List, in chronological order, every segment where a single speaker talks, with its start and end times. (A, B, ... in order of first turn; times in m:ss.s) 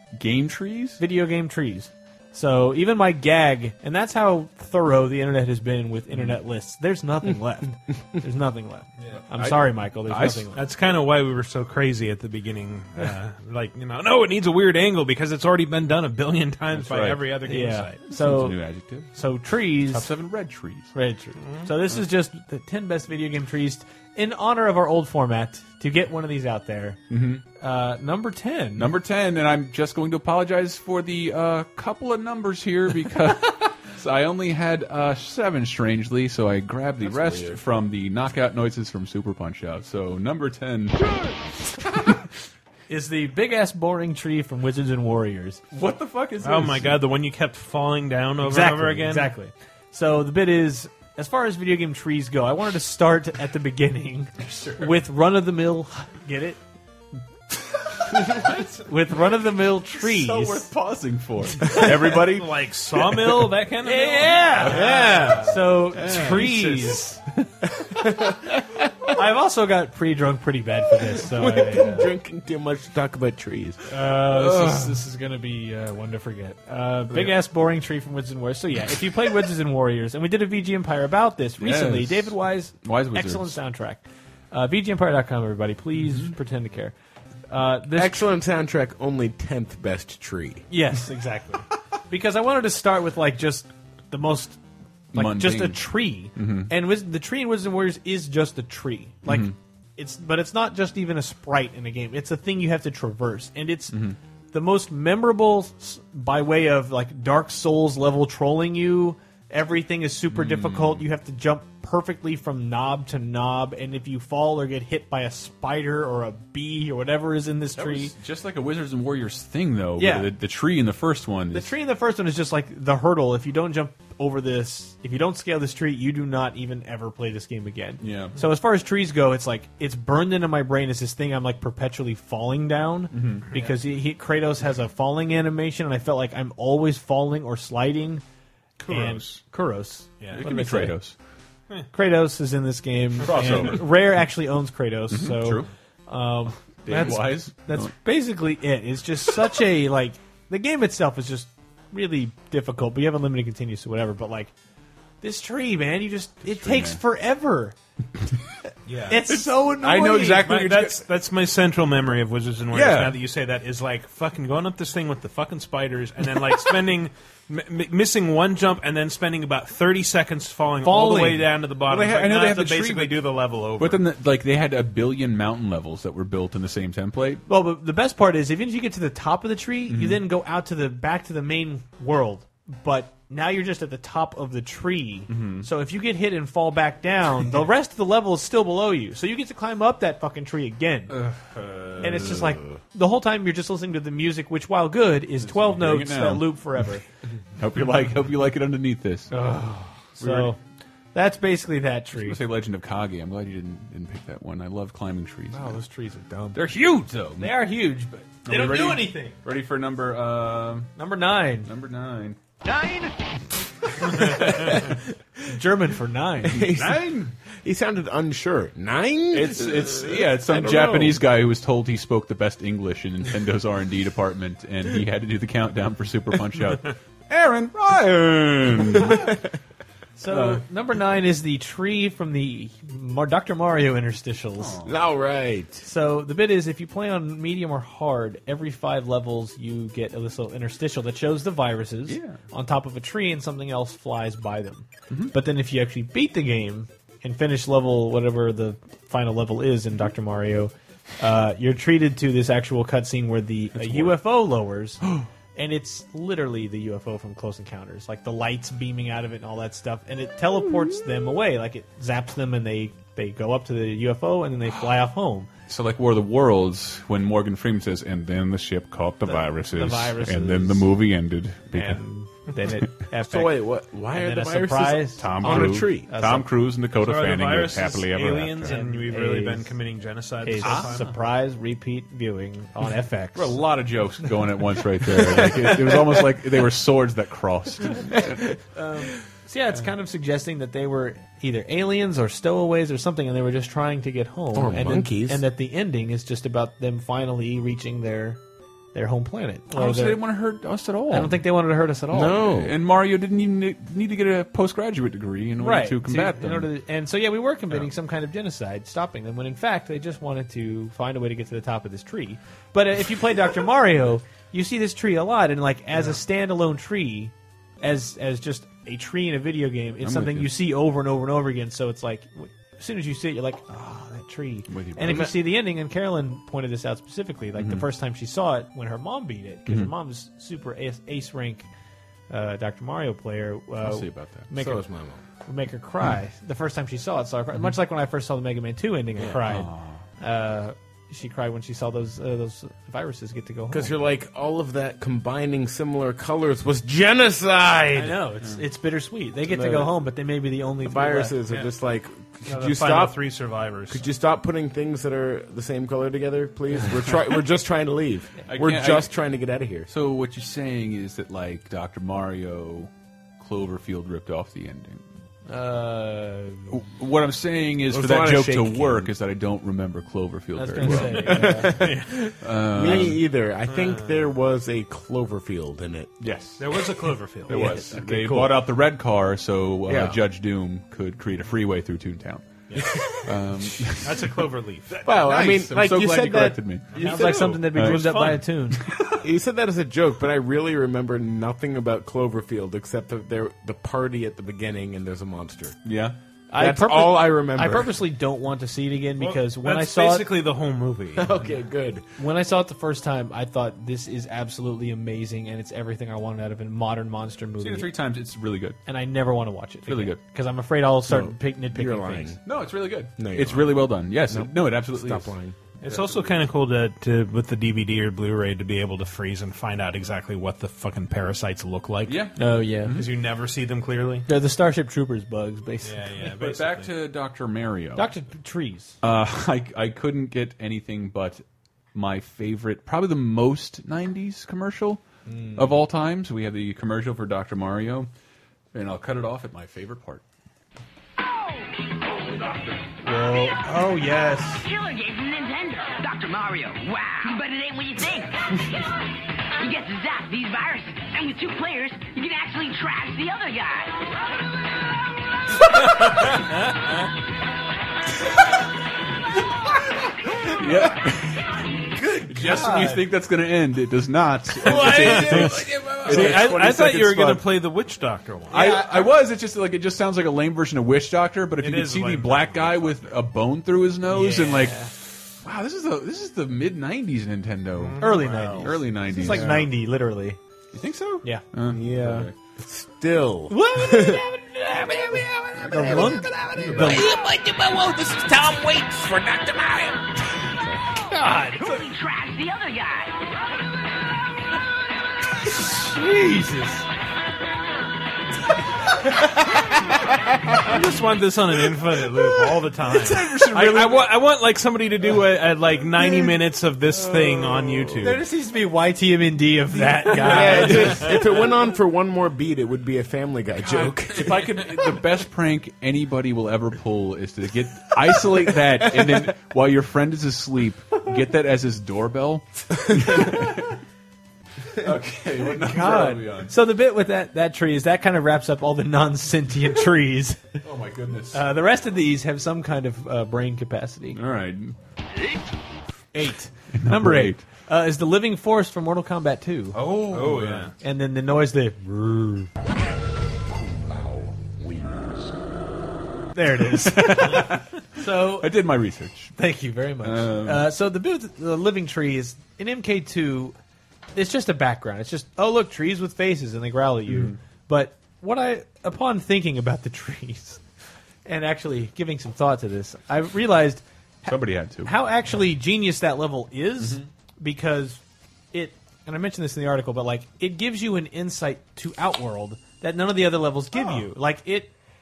0:00.2-0:01.0 A
0:01.0-0:10.6 B
0:06.1-0:06.4 A
0:09.3-0:10.5 A
0:10.6-0:18.0 C
0:16.7-0:17.2 A
0:17.5-0:18.6 B
0:18.1-0:19.2 A
0:19.1-0:20.1 B
0:19.8-0:20.9 A
0:20.9-0:27.0 B
0:21.4-0:21.7 C
0:27.1-0:27.4 A
0:27.6-0:28.9 B
0:28.8-0:41.0 A
0:37.0-0:37.6 D
0:42.9-0:45.6 B
0:45.7-0:47.0 A
0:46.4-0:49.3 C
0:48.4-0:56.6 B
0:54.4-0:54.9 A
0:58.3-0:58.8 A
0:58.7-1:00.7 B
0:59.9-1:02.6 A
1:02.1-1:05.5 C
1:03.8-1:07.2 B
1:04.5-1:05.5 A
1:06.0-1:06.4 A
1:06.0-1:07.0 C
1:07.8-1:08.6 D
1:09.1-1:12.1 B
1:11.2-1:13.8 D
1:13.9-1:26.9 B
1:14.2-1:15.0 A
1:21.6-1:23.6 A
1:26.0-1:26.4 A
1:27.5-1:28.3 B
1:27.9-1:30.7 D
1:30.7-1:34.6 B
1:35.1-1:36.7 A
1:35.1-1:44.0 B
1:39.3-1:39.6 A
1:43.9-1:44.2 A
1:44.5-1:58.1 B
1:50.3-1:51.1 A
1:57.8-2:01.7 A
2:00.0-2:00.3 B
2:01.5-2:18.2 B
2:08.0-2:08.4 A
2:13.1-2:13.5 A
2:18.8-2:19.4 C
2:18.9-2:21.0 B
2:20.3-2:21.2 A
2:21.9-2:34.5 B
2:23.2-2:23.9 A
2:25.1-2:25.7 A
2:26.9-2:27.9 A
2:35.2-2:37.8 B
2:36.5-2:37.0 A
2:38.9-2:39.2 C
2:39.1-2:40.6 B
2:39.3-2:41.0 A
2:40.3-2:54.0 C
2:42.7-2:43.2 A
2:50.8-2:51.5 B
2:51.9-2:53.2 A
2:53.8-2:57.4 A
2:57.5-3:11.2 B
2:59.9-3:00.2 A
3:05.3-3:05.7 A
3:11.1-3:12.6 A
3:12.0-3:17.0 B
3:15.4-3:16.5 A
3:17.6-3:19.3 A
3:19.3-3:20.6 B
3:20.2-3:20.6 A
3:21.1-3:22.4 B
3:22.1-3:25.8 A
3:25.5-3:26.6 B
3:26.5-3:27.6 A
3:27.4-3:29.4 B
3:28.4-3:30.9 A
3:31.0-3:31.7 B
3:31.6-3:32.4 A
3:35.4-3:36.7 B
3:36.4-3:41.2 D
3:36.6-3:37.3 A
3:39.3-3:49.4 A
3:50.2-3:54.8 B
3:50.3-3:50.6 A
3:54.6-3:55.0 A
3:54.8-3:55.8 D
3:55.8-4:15.0 B
4:02.1-4:02.4 A
4:13.7-4:14.2 A
4:15.0-4:15.3 A
4:15.6-4:25.5 B
4:25.7-4:32.0 A
4:29.2-4:30.9 B
4:31.7-4:33.6 B
4:33.2-4:36.1 D
4:34.1-4:36.5 B
4:35.2-4:38.8 A
4:37.0-4:41.1 C
4:38.6-4:39.8 B
4:40.4-4:43.6 B
4:40.6-4:41.0 A
4:43.4-4:48.5 A
4:45.6-4:46.1 D
4:48.7-4:58.4 B
4:54.5-4:55.4 D
4:58.9-5:00.2 B
4:59.7-5:01.4 A
5:01.1-5:02.5 B
5:02.1-5:02.8 D
5:02.4-5:06.7 A
5:05.6-5:31.7 B
5:20.0-5:20.5 A
5:24.7-5:25.4 A
5:25.0-5:25.4 D
5:27.6-5:27.9 A
5:29.7-5:29.9 A
5:32.3-5:34.8 B
5:33.8-5:34.5 A
5:34.5-5:35.2 D
5:35.4-5:43.9 B
5:39.2-5:39.4 D
5:39.4-5:40.0 A
5:43.7-5:48.2 D
5:47.9-5:51.4 B
5:49.5-5:49.9 D
5:50.8-5:53.2 D
5:52.5-5:54.0 C
5:53.9-5:59.9 D
5:58.5-5:59.1 A
5:59.9-6:05.0 A
6:05.5-6:06.8 B
6:06.7-6:11.7 A
6:07.9-6:09.1 D
6:10.6-6:11.9 B
6:10.8-6:16.1 D
6:11.8-6:12.1 C
6:12.4-6:13.2 A
6:13.7-6:14.3 C
6:16.2-6:16.7 A
6:16.6-6:17.8 C
6:17.5-6:22.5 A
6:17.5-6:18.7 D
6:17.6-6:17.8 B
6:19.9-6:20.2 D
6:22.7-6:23.0 C
6:22.8-6:23.0 D
6:23.2-6:24.3 A
6:24.0-6:24.9 C
6:24.9-6:29.2 A
6:25.0-6:26.6 D
6:26.9-6:28.4 C
6:26.9-6:28.8 B
6:29.2-6:35.8 D
6:35.8-6:36.2 A
6:36.5-6:40.3 B
6:36.6-6:38.0 D
6:39.2-6:41.3 C
6:41.2-6:42.1 D
6:42.2-6:47.9 B
6:47.6-6:48.8 A
6:48.9-6:52.4 B
6:49.9-6:50.2 A
6:51.1-6:52.4 D
6:52.4-6:55.3 A
6:53.2-6:55.6 D
6:55.8-7:02.3 C
6:55.8-6:56.4 A
7:02.1-7:03.1 A
7:02.4-7:03.0 B
7:02.9-7:04.3 C
7:04.3-7:06.0 B
7:05.8-7:06.9 C
7:06.3-7:08.1 A
7:08.0-7:09.0 B
7:09.0-7:11.4 A
7:11.9-7:15.0 A
7:15.3-7:15.8 B
7:15.6-7:18.1 A
7:18.7-7:20.2 A
7:23.0-7:24.7 B
7:24.7-7:28.3 E
7:29.7-7:33.8 E
7:40.5-7:41.5 A
7:42.2-7:46.6 A
7:42.3-7:43.1 B
7:44.6-7:45.6 B
7:44.7-7:48.9 C
7:46.1-7:46.6 D
7:46.1-7:47.4 B
7:48.5-7:59.7 A
7:48.6-7:49.0 B
7:51.6-7:53.2 C
7:54.1-7:54.9 B
7:57.7-7:58.8 C
7:58.0-8:00.4 B
8:00.7-8:02.3 A
8:01.2-8:02.2 B
8:01.7-8:04.2 D
8:03.5-8:07.1 B
8:05.7-8:06.0 A
8:05.8-8:07.3 D
8:06.6-8:07.0 A
8:08.9-8:09.7 D
8:11.1-8:11.8 B
8:12.0-8:13.1 E
8:15.4-8:16.8 B
8:20.6-8:28.2 C
8:22.9-8:24.1 A
8:27.0-8:28.0 D
8:28.0-8:31.2 B
8:30.1-8:34.8 D
8:33.6-8:43.8 A
8:38.7-8:39.3 D
8:44.8-8:46.5 A
8:45.5-8:50.4 B
8:50.6-8:51.4 A
8:51.3-8:54.2 B
8:54.1-8:54.8 A
8:56.1-8:59.9 B
8:56.7-8:57.4 A
8:59.7-9:00.7 A
9:00.1-9:00.7 C
9:00.8-9:02.5 B
9:06.3-9:08.5 B
9:06.6-9:09.3 A
9:09.4-9:13.6 B
9:10.0-9:10.7 A
9:14.2-9:20.6 B
9:17.1-9:17.4 A
9:21.2-9:28.0 B
9:24.2-9:24.9 A
9:26.8-9:27.1 A
9:28.5-9:34.7 B